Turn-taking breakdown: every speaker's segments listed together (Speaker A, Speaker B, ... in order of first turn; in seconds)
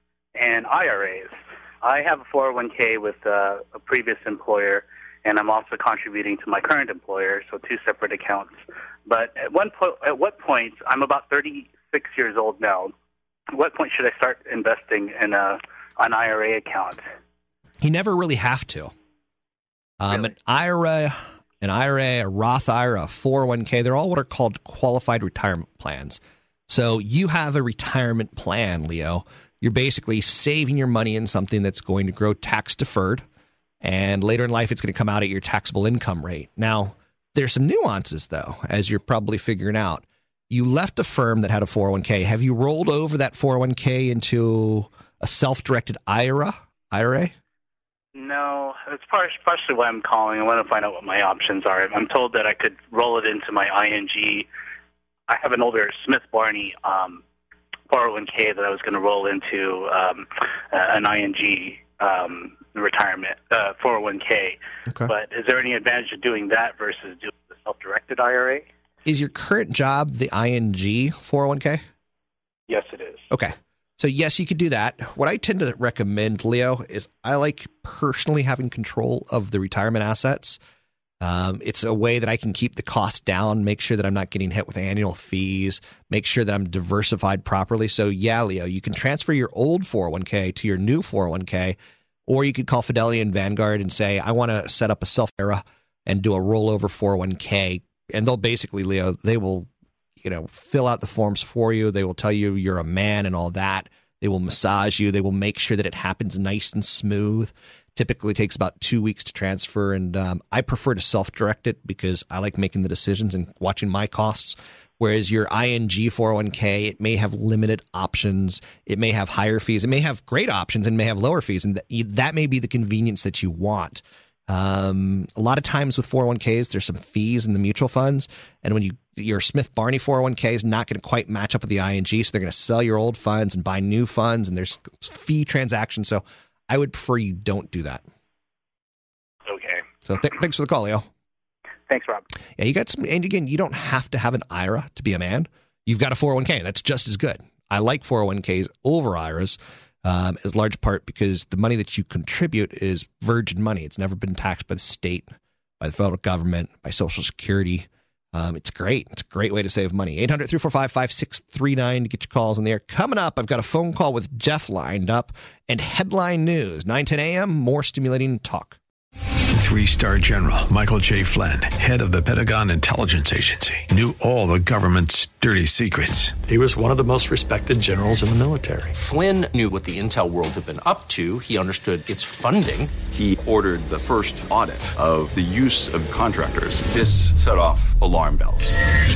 Speaker A: 0.3-12.9, 13.5-17.0, 48.1-54.5, 55.3-57.2, 57.9-68.7, 72.7-73.3, 139.4-139.8, 141.9-142.2
Speaker B: 17.8-18.9, 20.0-33.2, 33.8-47.3, 69.0-71.8, 73.3-80.6, 81.2-99.7, 100.2-138.0, 140.1-141.1, 142.6-168.8
Speaker C: 169.5-176.4
Speaker D: 176.4-178.9
Speaker E: 178.9-182.9
Speaker F: 183.1-188.8